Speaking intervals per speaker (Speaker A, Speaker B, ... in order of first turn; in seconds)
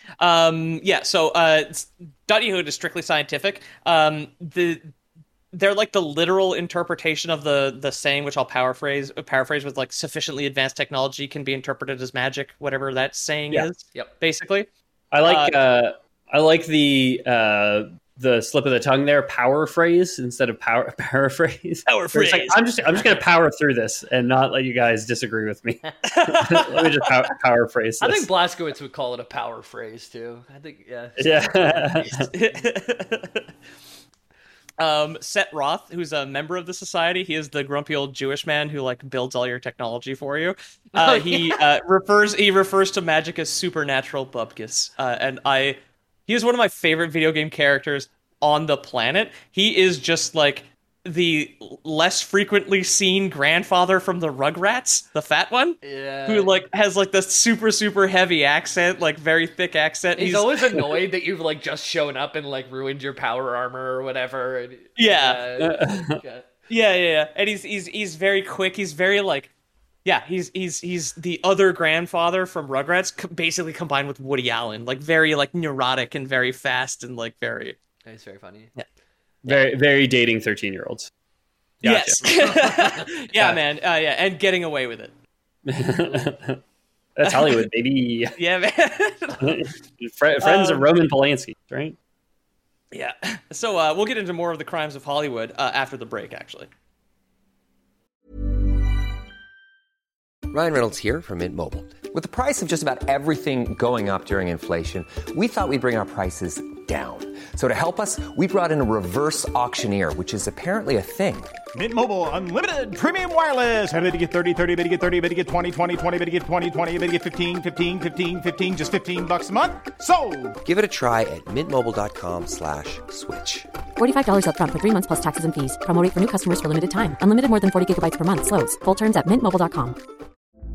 Speaker A: 0.2-4.9, 5.5-14.7, 15.2-15.5, 21.9-22.6, 26.1-27.1, 32.0-33.5, 34.8-60.9, 65.0-65.5, 66.7-69.5, 70.0-77.8, 81.8-85.1, 87.2-87.6, 88.4-89.6, 90.4-90.9, 92.9-96.7
Speaker B: 15.1-28.3, 31.2-32.2, 65.6-66.2, 79.4-81.1, 81.8-82.3, 85.7-86.6, 87.2-88.3, 89.4-92.0
Speaker C: 28.0-31.9, 40.9-41.6, 55.8-56.5, 60.2-66.5, 78.0-78.7, 82.2-83.0
Speaker D: 100.5-111.5, 120.6-123.7
Speaker E: 111.7-120.6
Speaker F: 124.0-130.0